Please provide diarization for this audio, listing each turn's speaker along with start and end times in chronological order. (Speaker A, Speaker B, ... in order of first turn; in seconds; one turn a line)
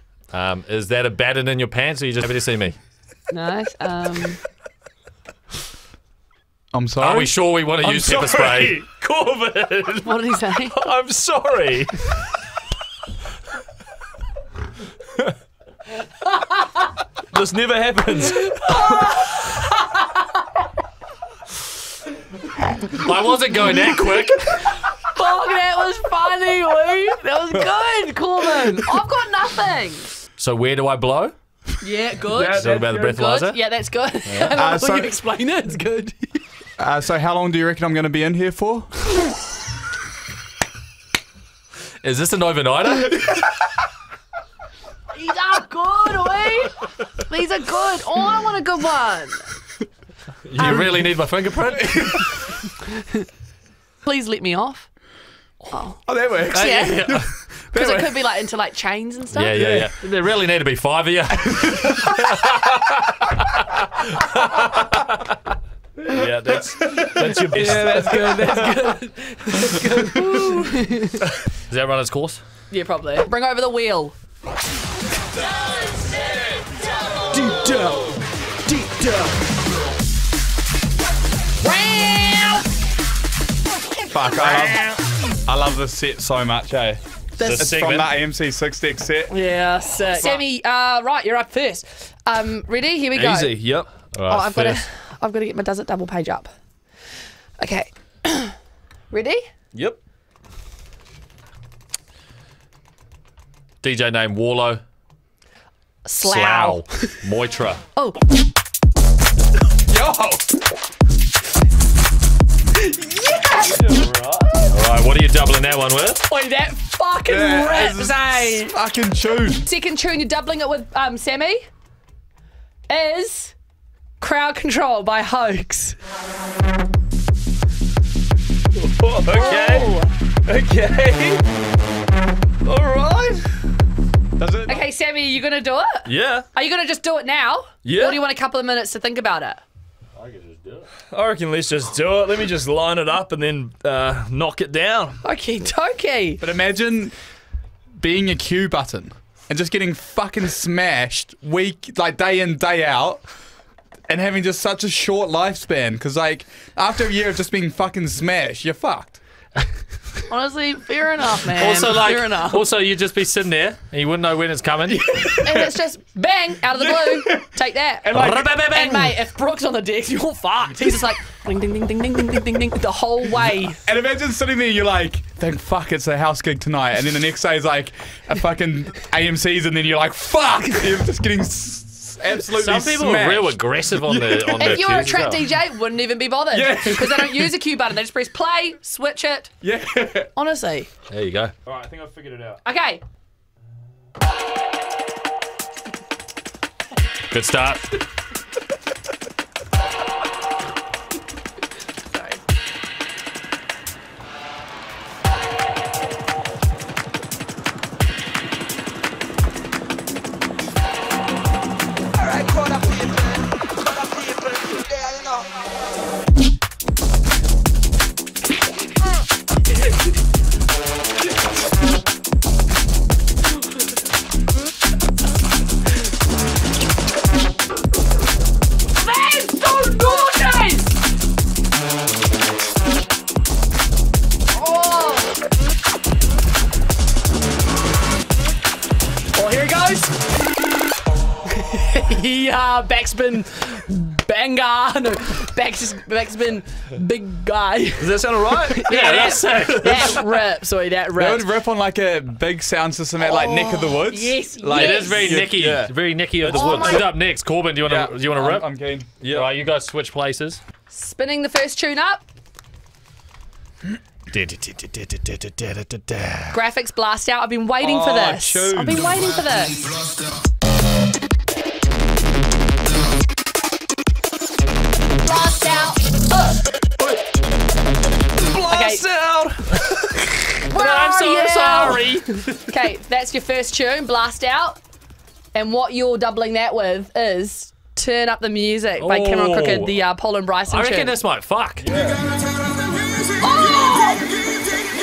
Speaker A: 0.3-2.8
Speaker B: 3.3-4.4
Speaker C: 6.7-7.4
Speaker A: 7.0-8.8
Speaker D: 7.8-12.2
Speaker B: 10.1-10.8
Speaker D: 17.3-19.1
Speaker B: 18.6-20.0
Speaker A: 22.9-24.8
Speaker B: 24.9-30.1
Speaker A: 30.4-31.3
Speaker B: 31.8-36.4
Speaker D: 32.4-32.9
Speaker A: 32.4-33.6
Speaker A: 34.3-34.6
Speaker C: 34.5-35.2
Speaker C: 36.8-39.1
Speaker A: 42.0-43.5
Speaker B: 45.1-49.5
Speaker D: 50.5-51.0
Speaker A: 50.5-52.4
Speaker B: 54.0-54.9
Speaker B: 55.7-59.7
Speaker C: 56.1-58.2
Speaker A: 56.8-57.3
Speaker A: 59.3-62.9
Speaker C: 59.6-59.9
Speaker C: 61.5-62.2
Speaker D: 66.1-68.5
Speaker C: 66.1-68.9
Speaker B: 67.9-71.2
Speaker C: 69.9-70.3
Speaker A: 71.7-72.4
Speaker B: 72.7-74.2
Speaker B: 77.4-77.9
Speaker D: 77.4-77.9
Speaker B: 78.7-79.2
Speaker B: 81.6-82.7
Speaker C: 84.1-84.9
Speaker A: 84.5-85.0
Speaker C: 85.5-89.3
Speaker B: 87.4-87.8
Speaker A: 87.4-88.1
Speaker B: 89.3-93.6
Speaker D: 93.1-93.9
Speaker A: 94.1-94.8
Speaker B: 94.3-96.5
Speaker B: 97.6-98.6
Speaker B: 99.1-99.5
Speaker D: 99.7-100.0
Speaker A: 103.8-104.8
Speaker B: 106.0-107.1
Speaker A: 106.2-107.8
Speaker C: 109.9-110.6
Speaker B: 112.8-114.1
Speaker D: 113.6-114.7
Speaker A: 114.7-116.2
Speaker B: 116.3-118.8
Speaker C: 117.2-119.6
Speaker B: 119.6-121.7
Speaker B: 122.9-123.5
Speaker B: 124.2-126.0
Speaker D: 128.8-131.4
Speaker B: 129.3-130.1
Speaker D: 132.7-133.5
Speaker C: 134.4-134.8
Speaker B: 134.7-139.6
Speaker D: 136.1-136.5
Speaker D: 137.8-138.2
Speaker A: 140.2-140.9
Speaker D: 141.1-145.2
Speaker B: 145.2-146.4
Speaker C: 146.4-147.2
Speaker C: 148.0-153.2
Speaker C: 154.1-159.2
Speaker B: 160.3-162.7
Speaker A: 161.5-165.3
Speaker C: 164.9-165.7
Speaker B: 165.4-173.8
Speaker C: 167.0-167.4
Speaker C: 168.0-168.6
Speaker A: 168.1-169.1
Speaker C: 173.8-185.0
Speaker A: 182.5-185.5
Speaker B: 184.6-189.5
Speaker C: 186.5-187.6
Speaker C: 189.6-190.3
Speaker B: 190.4-190.9
Speaker A: 191.1-191.5
Speaker D: 191.7-192.6
Speaker B: 192.7-193.0
Speaker A: 197.3-198.0
Speaker B: 202.1-202.4
Speaker B: 229.0-230.9
Speaker B: 234.5-235.3
Speaker B: 239.3-240.1
Speaker B: 241.5-251.5
Speaker D: 248.0-248.8
Speaker A: 248.9-250.2
Speaker C: 251.2-255.5
Speaker B: 253.2-255.4
Speaker A: 254.7-258.7
Speaker D: 255.3-255.9
Speaker D: 256.4-257.0
Speaker B: 256.5-257.1
Speaker C: 257.8-259.1
Speaker D: 259.2-259.5
Speaker A: 259.2-260.6
Speaker B: 260.9-262.2
Speaker A: 264.3-266.6
Speaker B: 266.5-269.8
Speaker C: 267.8-269.2
Speaker B: 275.2-276.6
Speaker D: 278.4-280.3
Speaker B: 278.7-279.1
Speaker B: 280.7-284.8
Speaker A: 280.7-282.7
Speaker B: 285.5-291.1
Speaker A: 289.0-290.0
Speaker A: 290.7-291.9
Speaker D: 291.8-292.2
Speaker B: 293.4-294.3